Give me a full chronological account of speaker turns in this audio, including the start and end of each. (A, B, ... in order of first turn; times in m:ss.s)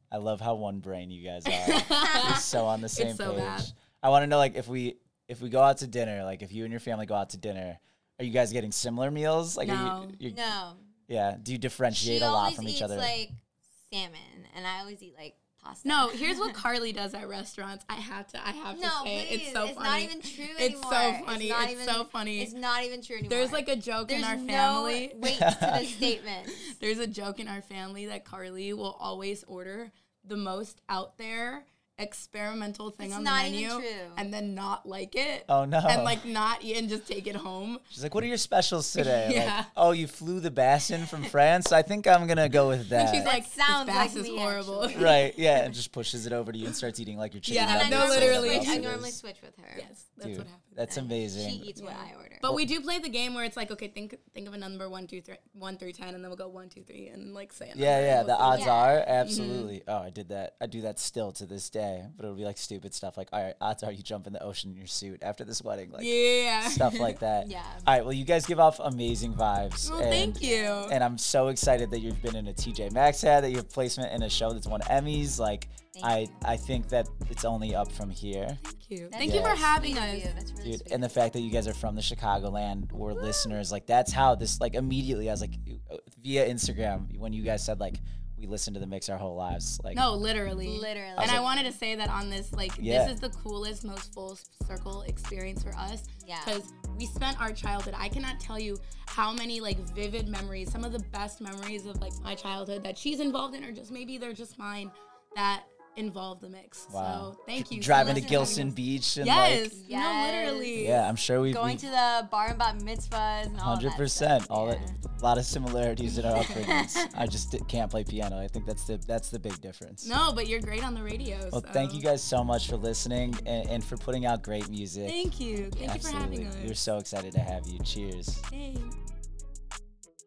0:00.1-0:10.5 A
0:01.5-0:03.7 B
0:01.9-0:02.4 C
0:09.6-0:10.2 B
0:10.3-0:10.9 C
0:11.1-0:13.1 A
0:11.9-0:16.6 C
0:15.8-0:22.6 B
0:18.7-0:26.8 C
0:23.3-0:37.8 B
0:25.4-0:25.8 A
0:33.0-0:34.3 C
0:35.5-0:36.3 A
0:37.9-0:43.3 A
0:39.0-0:39.7 B
0:42.9-0:45.8 B
0:43.2-0:45.2 C
0:45.0-0:49.2 A
0:47.5-0:48.9 B
0:47.5-0:49.9 C
0:49.8-0:50.9 B
0:50.2-0:51.7 A
0:50.8-0:52.5 C
0:51.8-0:59.7 B
0:57.8-1:18.6 A
0:58.5-0:59.1 C
1:06.0-1:07.2 B
1:07.4-1:07.9 C
1:09.8-1:11.0 B
1:10.2-1:10.9 C
1:15.9-1:16.4 C
1:18.6-1:20.3 B
1:19.1-1:21.2 C
1:19.2-1:19.7 A
1:20.6-1:30.0 A
1:29.9-1:51.1 B
1:30.6-1:31.8 C
1:31.2-1:31.4 A
1:32.8-1:33.2 A
1:36.2-1:36.6 C
1:46.9-1:49.8 A
1:48.0-1:48.7 C
1:49.8-1:50.8 C
1:50.8-1:51.8 A
1:51.4-1:55.0 C
1:53.6-2:00.1 A
1:56.0-1:56.8 B
1:56.7-1:57.1 C
2:00.0-2:02.1 B
2:01.5-2:08.4 A
2:05.0-2:06.8 B
2:05.6-2:06.1 C
2:08.5-2:09.0 B